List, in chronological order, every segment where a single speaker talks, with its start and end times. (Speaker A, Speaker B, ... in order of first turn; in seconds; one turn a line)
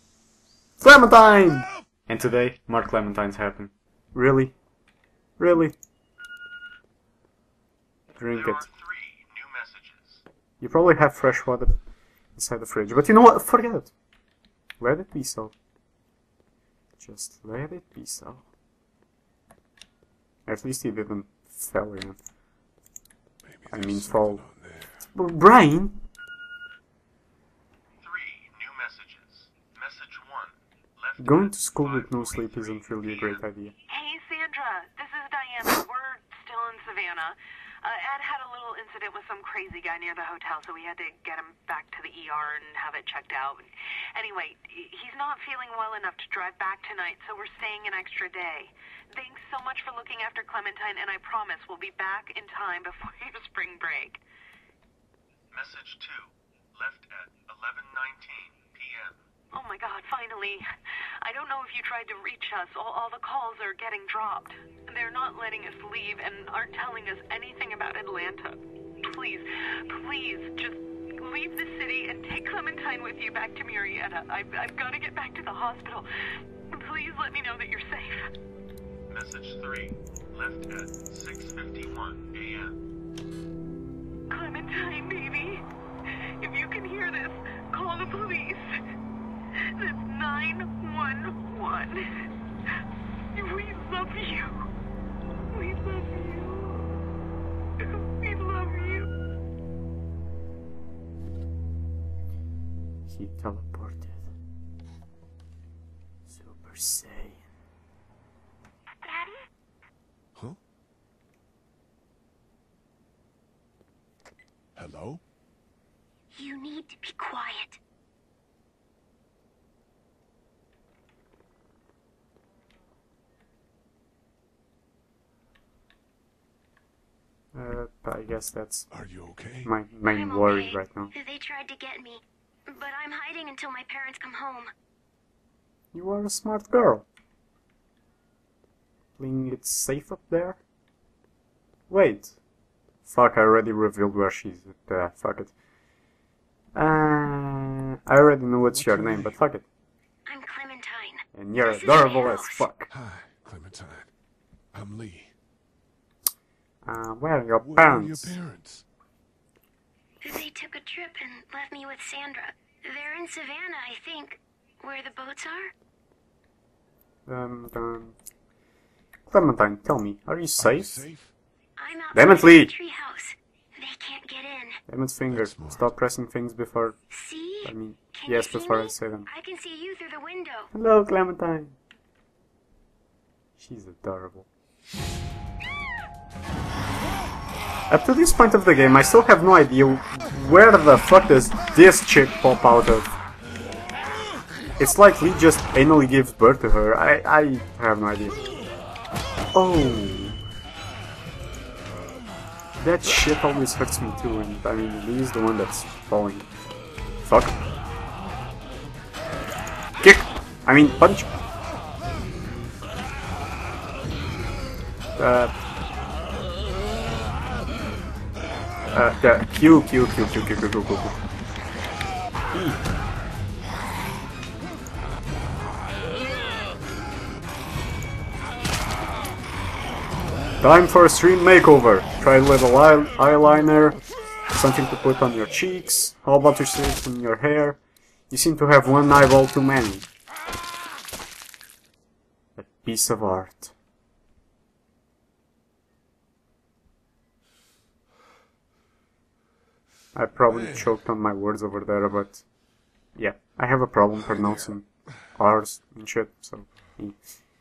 Speaker A: 0.8-4.5
Speaker A: 5.4-5.7
Speaker A: 8.2-8.7
Speaker B: 8.3-10.2
Speaker A: 10.6-11.8
Speaker A: 12.3-13.9
Speaker A: 14.8-15.5
Speaker A: 17.0-18.4
Speaker A: 20.5-22.2
Speaker C: 23.4-25.1
Speaker A: 23.7-24.4
Speaker A: 25.1-26.0
Speaker B: 28.0-33.4
Speaker A: 31.2-33.8
Speaker D: 33.9-54.2
Speaker B: 55.5-59.2
Speaker D: 59.5-60.6
Speaker D: 61.2-76.0
Speaker D: 76.7-78.2
Speaker B: 79.1-82.8
Speaker D: 84.3-85.6
Speaker D: 86.4-88.6
Speaker D: 89.8-92.0
Speaker D: 93.3-94.5
Speaker D: 95.5-96.9
Speaker D: 97.8-99.1
Speaker A: 103.1-104.2
Speaker A: 106.3-107.4
Speaker C: 114.8-115.2
Speaker E: 116.3-117.8
Speaker A: 127.5-128.9
Speaker C: 128.9-129.7
Speaker A: 129.7-131.1
Speaker E: 130.0-134.7
Speaker A: 135.9-137.1
Speaker A: 139.2-140.6
Speaker A: 141.9-142.3
Speaker A: 143.1-145.5
Speaker A: 146.7-149.6
Speaker C: 148.7-149.4
Speaker E: 150.2-152.7
Speaker A: 151.3-152.9
Speaker C: 152.9-154.1
Speaker C: 154.7-155.3
Speaker A: 156.8-158.3
Speaker C: 157.6-158.8
Speaker E: 160.2-165.7
Speaker A: 167.3-168.1
Speaker A: 169.3-171.0
Speaker C: 170.6-171.3
Speaker E: 171.8-174.8
Speaker A: 172.1-172.8
Speaker A: 174.9-176.9
Speaker C: 175.3-175.9
Speaker E: 177.1-180.7
Speaker A: 177.6-179.3
Speaker A: 180.7-181.8
Speaker A: 183.6-184.4
Speaker A: 187.9-193.2
Speaker A: 194.8-198.4
Speaker A: 199.5-200.4
Speaker A: 202.8-206.5
Speaker A: 207.2-207.6
Speaker A: 210.0-211.3
Speaker A: 215.2-215.5
Speaker A: 218.9-221.2
Speaker A: 222.5-222.8
Speaker A: 230.6-240.1
Speaker A: 242.6-243.7
Speaker A: 250.1-252.4
Speaker C: 250.4-251.0
Speaker A: 253.2-257.2
Speaker C: 254.2-254.7